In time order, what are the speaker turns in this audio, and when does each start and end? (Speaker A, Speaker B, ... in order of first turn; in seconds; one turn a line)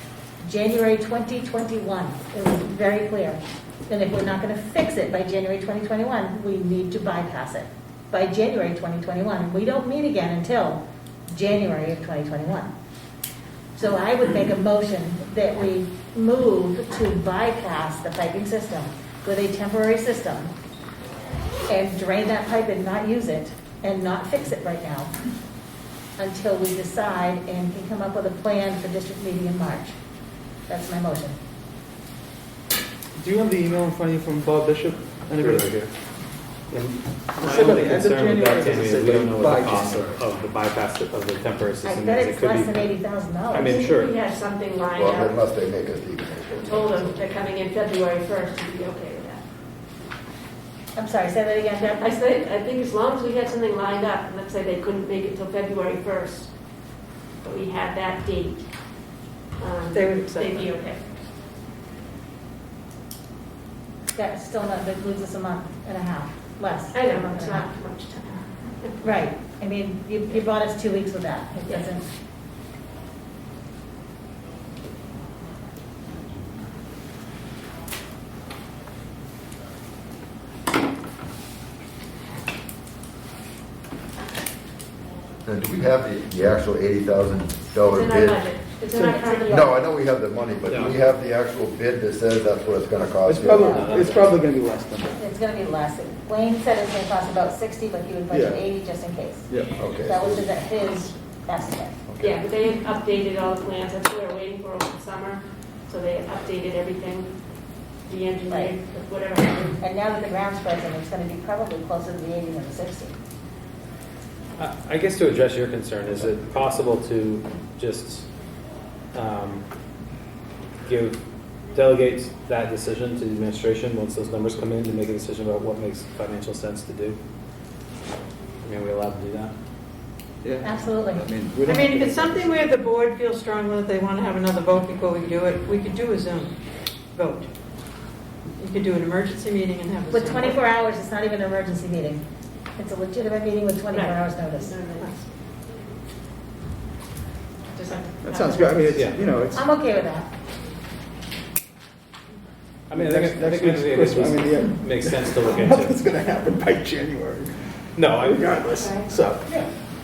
Speaker A: 0.4-12.7
Speaker A: 13.8-20.5
Speaker A: 21.7-25.1
Speaker A: 26.2-29.9
Speaker A: 30.7-31.4
Speaker B: 33.2-35.9
Speaker C: 36.7-42.9
Speaker B: 37.4-40.1
Speaker A: 41.8-43.9
Speaker C: 43.5-44.1
Speaker D: 43.6-45.4
Speaker E: 44.9-46.9
Speaker D: 46.5-49.4
Speaker A: 50.9-52.1
Speaker D: 52.0-56.5
Speaker D: 57.4-58.6
Speaker D: 59.6-61.0
Speaker F: 59.9-60.7
Speaker A: 64.1-67.7
Speaker D: 66.9-68.9
Speaker A: 69.0-72.1
Speaker E: 85.5-88.4
Speaker D: 87.8-89.8
Speaker B: 88.9-89.3
Speaker A: 89.2-89.5
Speaker E: 89.5-93.8
Speaker C: 90.7-91.0
Speaker B: 93.2-95.2
Speaker A: 93.5-93.9
Speaker C: 93.7-94.4
Speaker A: 95.2-99.5
Speaker B: 98.3-98.6
Speaker B: 99.5-99.8
Speaker E: 99.8-100.5
Speaker A: 100.0-102.0
Speaker E: 102.1-102.4
Speaker D: 102.2-107.3
Speaker D: 108.0-109.8
Speaker A: 108.5-108.7
Speaker A: 109.8-113.1
Speaker C: 114.6-118.3
Speaker C: 119.1-119.6
Speaker C: 120.8-121.2
Speaker C: 121.7-127.2
Speaker C: 128.6-129.5
Speaker B: 130.4-132.6
Speaker A: 130.6-131.3
Speaker F: 131.6-136.5
Speaker F: 137.1-137.4
Speaker F: 138.6-140.6
Speaker A: 140.1-142.2
Speaker A: 142.8-144.8
Speaker D: 143.9-145.3
Speaker D: 147.8-148.0
Speaker F: 147.9-148.6
Speaker B: 148.2-149.6
Speaker C: 148.9-149.2
Speaker A: 149.5-150.3
Speaker C: 152.9-156.0
Speaker B: 152.9-157.5
Speaker C: 157.9-159.0
Speaker B: 158.2-159.5